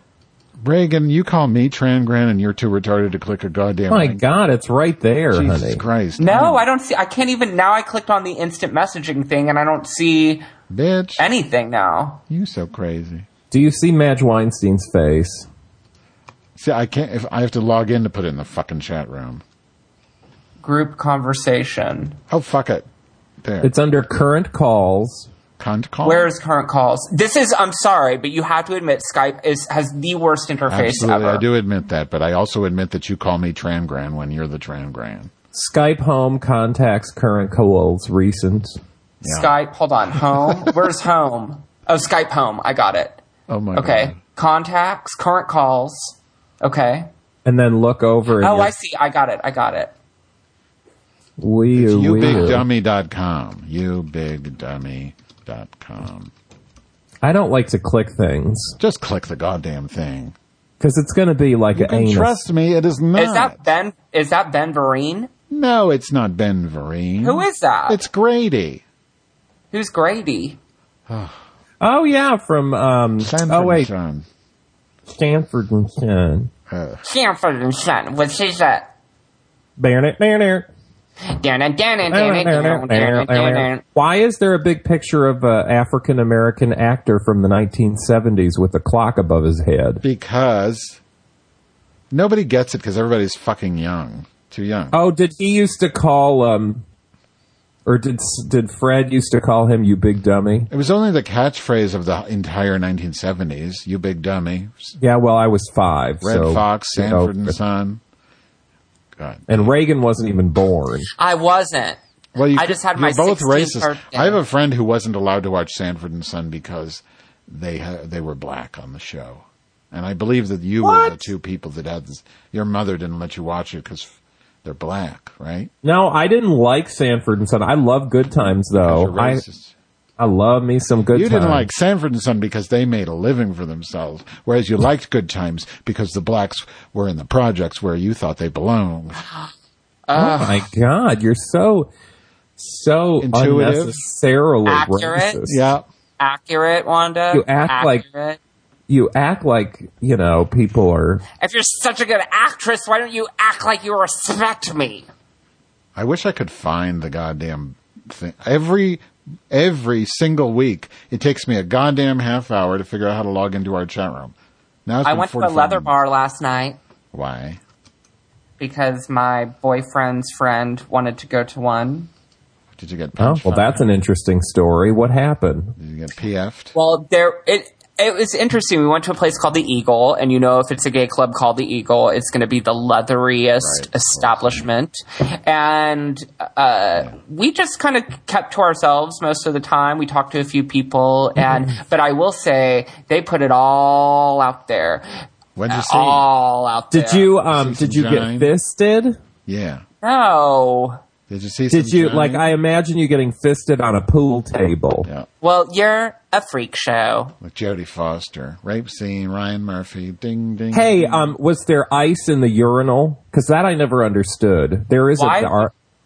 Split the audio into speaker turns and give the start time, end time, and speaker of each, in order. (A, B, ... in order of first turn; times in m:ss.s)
0:00.6-0:04.2 A
0:03.9-0:05.8 B
0:05.3-0:06.6 A
0:06.2-0:10.4 C
0:10.7-0:11.3 A
0:11.2-0:12.2 C
0:12.3-0:13.3 A
0:13.5-0:15.5 B
0:16.6-0:19.4 A
0:20.6-0:22.2 C
0:22.3-0:22.9 A
0:23.4-0:23.7 A
0:23.6-0:25.3 B
0:25.6-0:26.3 A
0:26.0-0:31.4 C
0:30.7-0:35.3 A
0:35.5-0:38.8 B
0:39.2-0:39.6 A
0:39.2-0:43.2 C
0:43.5-0:44.2 A
0:43.7-0:47.1 C
0:47.4-0:48.7 B
0:48.4-0:49.9 C
0:51.4-0:52.6 B
0:51.7-0:56.3 A
0:57.2-0:58.8 B
0:58.8-1:00.4 A
1:00.8-1:02.4 B
1:01.7-1:03.6 A
1:03.2-1:05.3 C
1:05.5-1:08.8 A
1:07.2-1:08.0 C
1:09.7-1:10.6 C
1:11.1-1:11.4 A
1:11.8-1:13.9 B
1:13.2-1:14.3 A
1:15.1-1:16.5 B
1:16.7-1:17.0 A
1:17.0-1:18.9 C
1:19.8-1:20.7 B
1:21.4-1:23.8 C
1:22.1-1:30.0 B
1:30.0-1:31.0 A
1:32.1-1:35.0 A
1:34.9-1:36.8 B
1:37.9-1:40.7 B
1:40.7-1:45.0 A
1:45.0-1:47.6 B
1:46.2-1:48.0 A
1:49.2-1:49.7 A
1:49.5-1:51.1 B
1:51.2-1:52.0 C
1:52.4-2:05.7 A
1:52.5-1:54.4 C
2:00.8-2:01.3 B
2:05.8-2:09.4 B
2:08.7-2:09.7 A
2:10.2-2:11.7 B
2:11.1-2:19.2 A
2:20.1-2:20.7 C
2:20.2-2:21.9 B
2:22.6-2:25.6 B
2:23.2-2:24.0 A
2:24.7-2:25.4 C
2:25.4-2:25.9 A
2:26.2-2:28.4 C
2:27.3-2:28.0 B
2:28.9-2:31.2 B
2:31.4-2:35.1 C
2:36.0-2:44.4 A
2:44.9-2:45.9 A
2:45.0-2:46.8 C
2:47.1-2:47.6 A
2:48.6-2:52.1 C
2:52.8-2:54.0 A
2:53.2-2:55.8 B
2:55.8-2:56.7 A
2:56.8-3:15.1 C
3:03.6-3:04.7 A
3:15.6-3:16.3 A
3:15.7-3:17.3 C
3:16.9-3:19.2 B
3:17.5-3:18.5 A
3:19.5-3:19.8 A
3:20.0-3:21.0 C
3:21.3-3:22.5 A
3:21.7-3:25.1 B
3:25.4-3:27.3 C
3:27.4-3:31.4 A
3:30.7-3:35.7 B
3:35.2-3:35.7 C